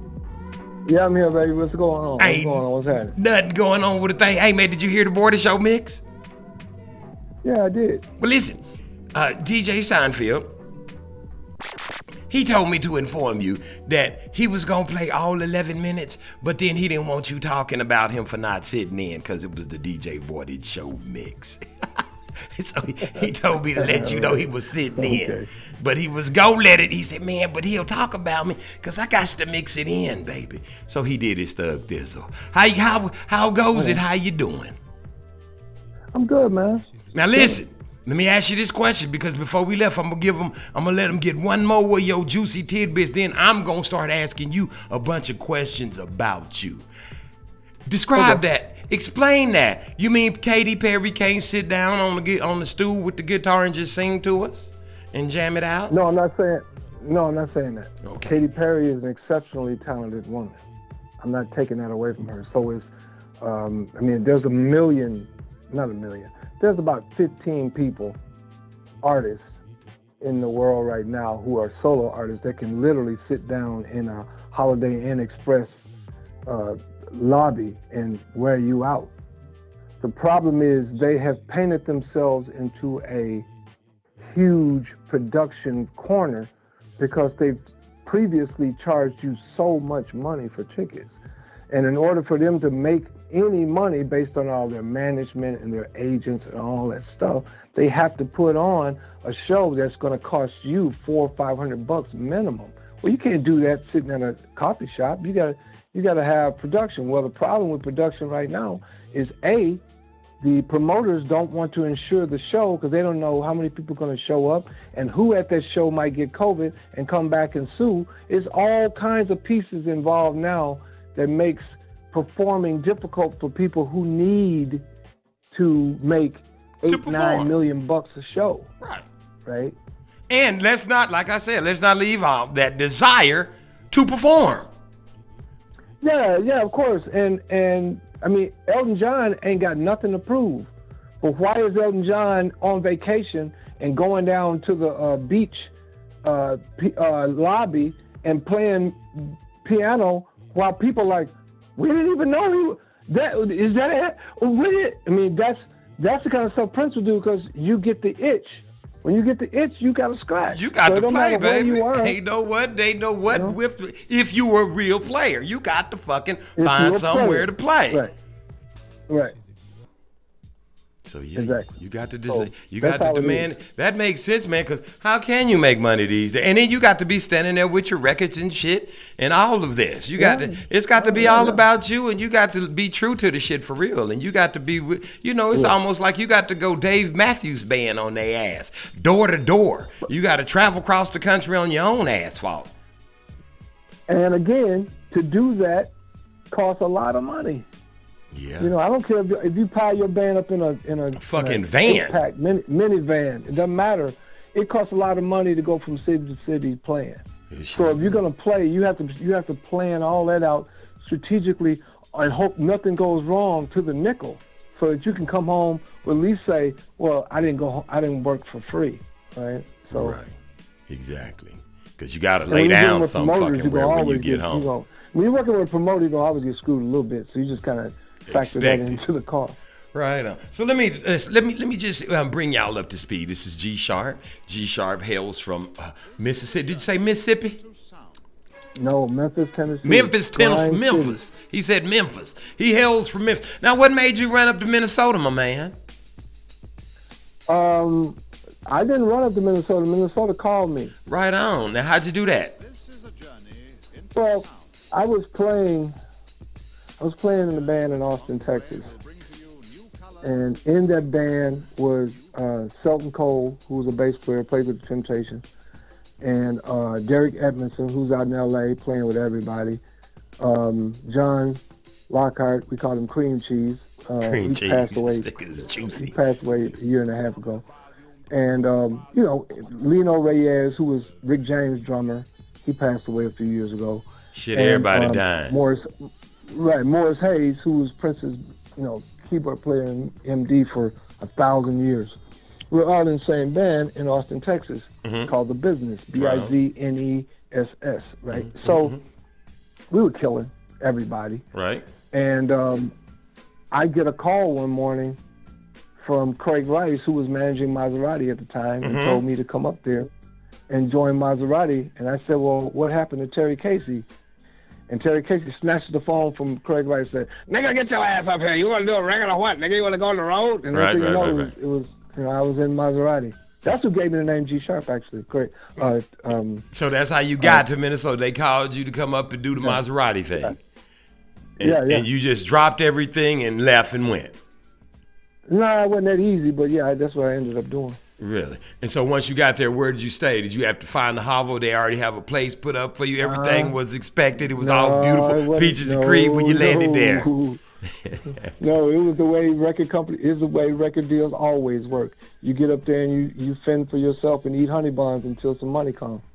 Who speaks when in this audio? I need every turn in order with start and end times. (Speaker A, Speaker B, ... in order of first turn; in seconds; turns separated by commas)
Speaker A: 0.8-3.1, Speaker B: 2.2-6.0, Speaker A: 7.4-8.1, Speaker B: 8.2-8.6, Speaker B: 9.1-10.5, Speaker B: 12.3-22.0, Speaker B: 22.5-34.8, Speaker A: 23.8-25.5, Speaker A: 33.7-34.0, Speaker A: 36.1-37.5, Speaker B: 37.1-46.9, Speaker B: 47.9-55.9, Speaker A: 48.1-48.4, Speaker A: 55.9-60.6, Speaker B: 58.0-58.4, Speaker A: 61.2-62.9, Speaker A: 63.4-68.2, Speaker A: 69.0-69.5, Speaker A: 70.2-75.8, Speaker A: 76.5-79.1, Speaker A: 80.0-83.5, Speaker A: 84.2-91.1, Speaker A: 91.7-109.8, Speaker A: 110.4-124.8, Speaker A: 125.5-128.7, Speaker B: 126.9-127.5, Speaker A: 129.5-129.8, Speaker B: 130.3-134.7, Speaker A: 136.0-140.7, Speaker A: 141.2-145.7, Speaker A: 146.2-162.2, Speaker B: 160.5-168.0, Speaker A: 163.3-163.6, Speaker A: 166.6-168.1, Speaker A: 169.1-169.3, Speaker B: 171.1-192.7, Speaker A: 171.3-171.7, Speaker A: 172.3-173.5, Speaker A: 180.2-181.6, Speaker A: 194.1-195.9, Speaker A: 196.5-197.7, Speaker B: 198.3-198.7, Speaker A: 198.6-220.2, Speaker B: 201.2-202.2, Speaker B: 207.5-208.2, Speaker B: 219.9-220.3, Speaker B: 220.9-224.7, Speaker A: 222.5-229.6, Speaker B: 228.3-229.0, Speaker B: 229.9-237.6, Speaker A: 238.8-241.2, Speaker B: 239.8-245.8, Speaker A: 247.5-250.9, Speaker B: 251.1-252.6, Speaker A: 254.1-255.9, Speaker A: 257.0-258.9, Speaker A: 260.2-265.4, Speaker A: 266.2-269.8, Speaker A: 270.4-275.3, Speaker B: 274.2-276.1, Speaker A: 275.9-277.7, Speaker A: 278.3-285.9, Speaker B: 284.3-285.6, Speaker A: 286.5-292.2, Speaker A: 292.7-299.0, Speaker B: 295.0-295.3, Speaker B: 296.1-296.6, Speaker B: 298.3-299.0, Speaker A: 299.9-301.5, Speaker B: 301.5-301.9, Speaker A: 302.1-302.9, Speaker A: 303.7-305.2, Speaker A: 306.0-310.1, Speaker B: 308.8-309.2, Speaker A: 310.7-314.1, Speaker A: 314.9-326.6, Speaker B: 320.7-321.5, Speaker B: 326.7-330.6, Speaker B: 331.6-334.4, Speaker A: 331.6-332.1, Speaker A: 335.5-338.0, Speaker B: 338.2-347.3, Speaker A: 343.2-343.8, Speaker A: 344.6-347.6, Speaker B: 348.1-348.5, Speaker A: 348.6-356.2